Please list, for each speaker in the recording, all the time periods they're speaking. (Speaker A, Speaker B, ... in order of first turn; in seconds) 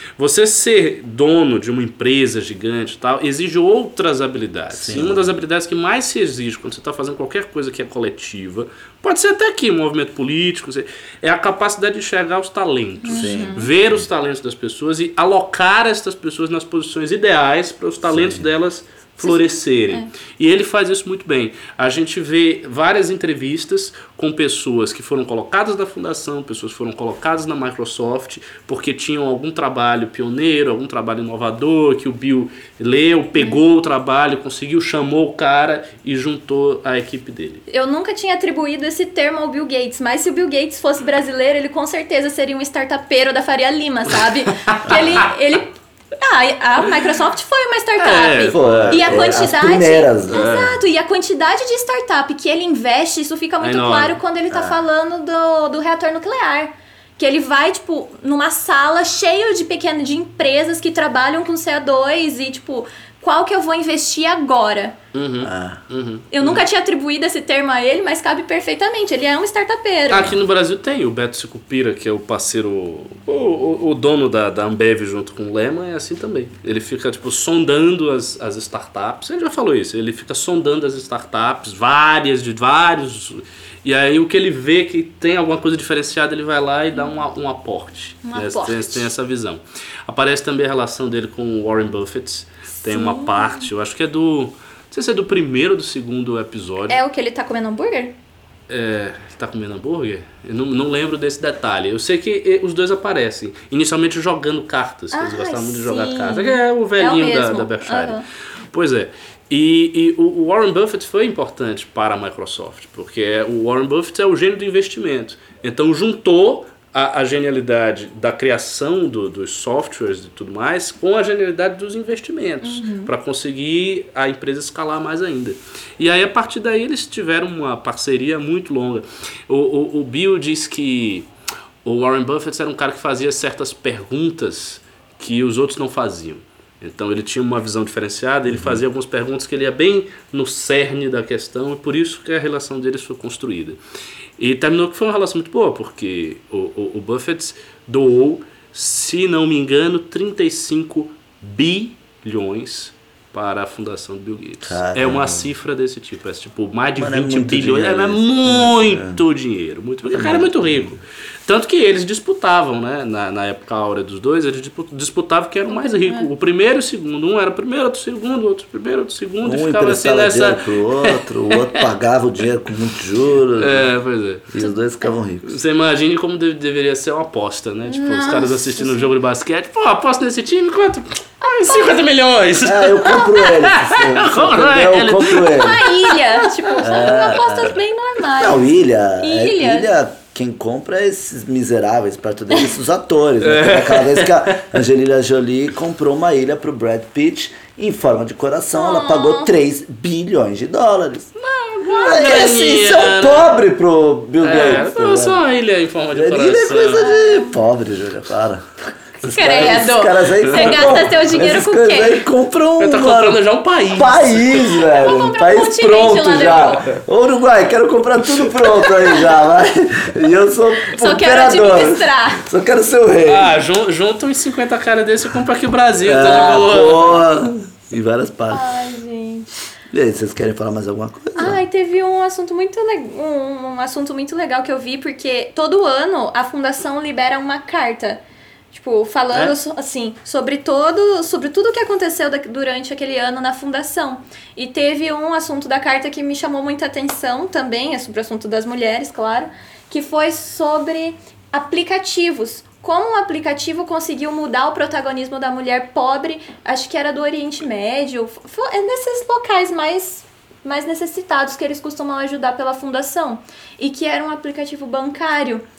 Speaker A: 0.2-37.6, 44.7-45.3, 48.0-49.5, 50.3-50.8, 53.6-54.2, 65.1-66.6, 70.1-97.0, 98.7-131.3, 131.8-143.8, 144.4-171.9, 173.6-174.5, 175.4-187.2, 193.4-194.7, 201.4-203.5, 204.4-207.1, 212.8-214.8, 218.3-219.0, 223.2-227.2
Speaker B: 4.7-5.4, 13.1-14.1, 18.1-18.5, 48.5-50.5, 54.5-54.8, 65.4-65.8, 138.5-138.8, 154.6-155.5, 156.9-159.2, 160.1-161.0, 169.4-173.9, 174.5-175.6, 182.6-185.9, 186.8-187.7, 188.4-201.3, 201.9-205.4, 206.1-208.6, 209.2-223.6, 226.0-228.7, 229.9-231.6
Speaker C: 13.1-13.7, 19.2-20.1, 37.7-65.0, 66.3-70.3, 88.2-89.1, 92.8-93.7, 96.9-98.1, 105.1-108.2, 122.6-123.1, 165.7-166.3, 177.9-179.1, 181.6-182.0, 185.4-188.6, 189.2-189.9, 198.7-199.5, 207.0-207.6, 209.2-212.2, 214.9-216.8, 220.9-222.4, 228.5-229.5, 231.3-238.2, 238.7-265.6